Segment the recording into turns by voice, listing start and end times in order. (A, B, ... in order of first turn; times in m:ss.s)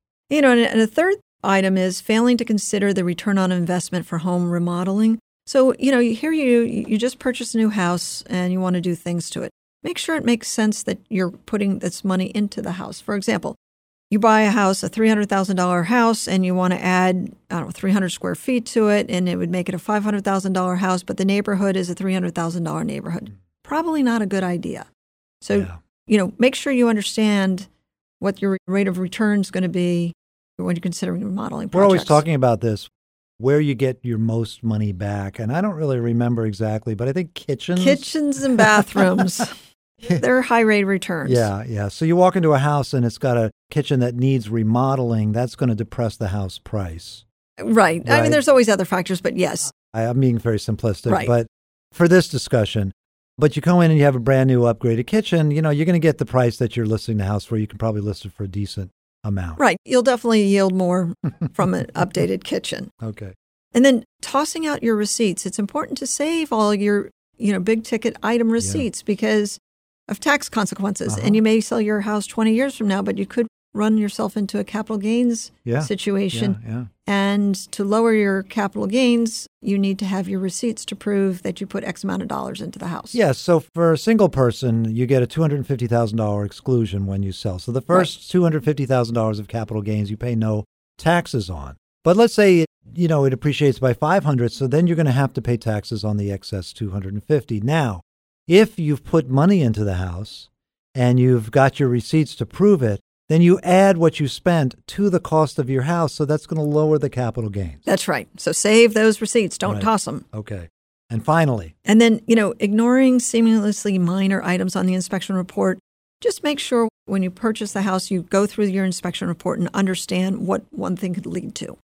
0:00.3-0:13.6 A
0:14.1-0:24.9 A
0:25.4-0:27.7 A
0:28.2-0:32.2 A
0:31.7-0:38.1 B
0:37.8-0:39.5 A
0:40.1-0:41.5 A
0:41.2-0:47.2 B
0:47.6-0:49.7 A
0:48.0-0:48.4 B
0:49.9-0:59.6 B
0:59.6-1:02.9 A
1:03.0-1:03.3 B
1:03.7-1:23.2 A
1:08.6-1:08.8 B
1:11.1-1:11.4 B
1:15.6-1:16.9 B
1:23.1-1:47.8 B
1:47.8-1:50.2 A
1:49.6-1:51.7 B
1:51.8-2:01.8 A